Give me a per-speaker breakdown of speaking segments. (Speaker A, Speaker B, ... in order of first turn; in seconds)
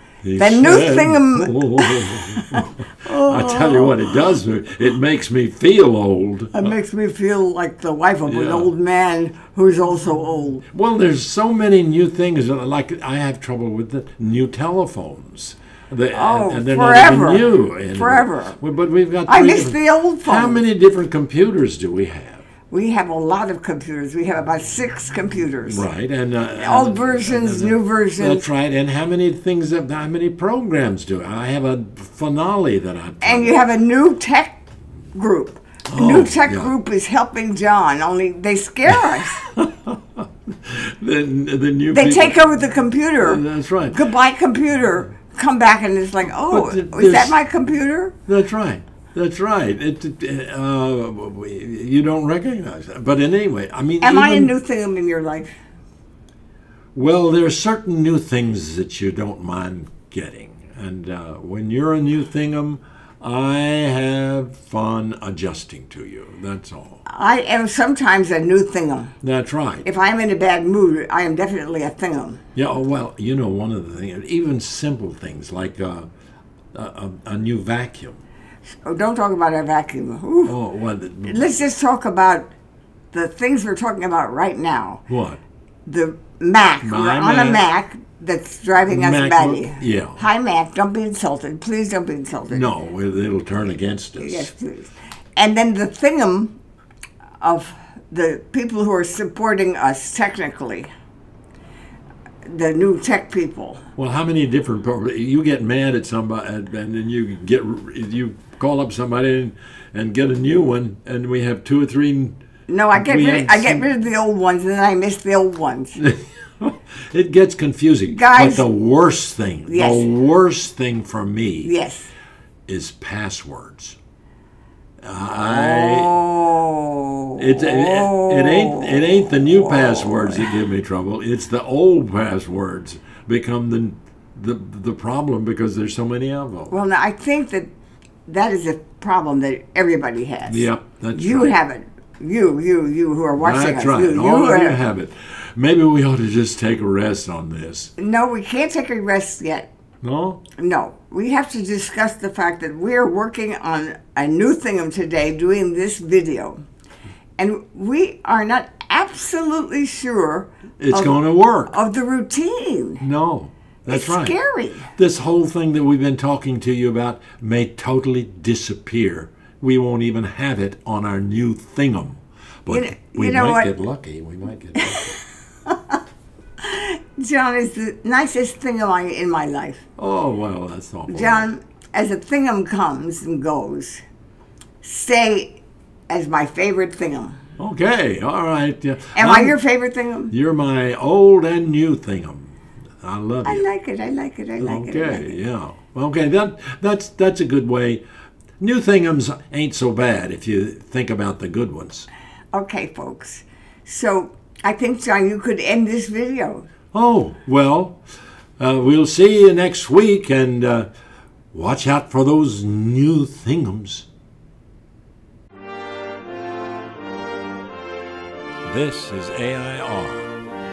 Speaker A: 0.2-6.7, 8.3-8.7, 10.7-22.4, 25.6-33.5, 35.9-36.7, 38.9-42.4, 43.2-44.0, 46.5-47.4, 48.3-54.5, 56.9-67.0, 69.2-69.8, 72.5-76.1, 76.7-78.2, 80.5-81.5, 85.1-85.4, 86.8-87.6, 88.9-90.2, 92.5-94.5, 104.0-112.3, 112.9-113.9, 116.0-121.7, 122.7-124.0, 125.0-126.1, 127.4-136.7, 140.4-141.5, 143.4-147.9, 150.0-150.4, 160.8-161.7, 163.0-164.3, 164.9-175.1, 180.0-181.5, 187.6-189.6, 190.3-193.7, 194.6-198.0, 198.6-202.1, 206.9-208.0, 208.6-210.9, 211.5-214.1, 218.6-220.3
Speaker B: 0.4-4.2, 6.5-10.6, 16.1-18.6, 19.3-20.6, 22.7-25.9, 26.5-28.4, 33.2-39.4, 41.9-48.1, 54.0-55.5, 67.0-69.1, 69.8-72.4, 78.8-80.5, 81.2-82.5, 83.1-85.0, 85.8-92.7, 94.2-96.6, 97.4-100.9, 102.4-103.8, 112.7-116.0, 118.1-118.6, 119.7-120.1, 121.6-122.1, 125.4-130.5, 136.7-137.7, 138.2-144.8, 148.0-149.7, 150.6-156.6, 157.4-163.0, 163.9-164.9, 172.7-173.7, 174.7-176.0, 176.6-179.8, 181.1-184.0, 184.8-187.4, 189.1-190.3, 193.4-195.4, 202.5-206.7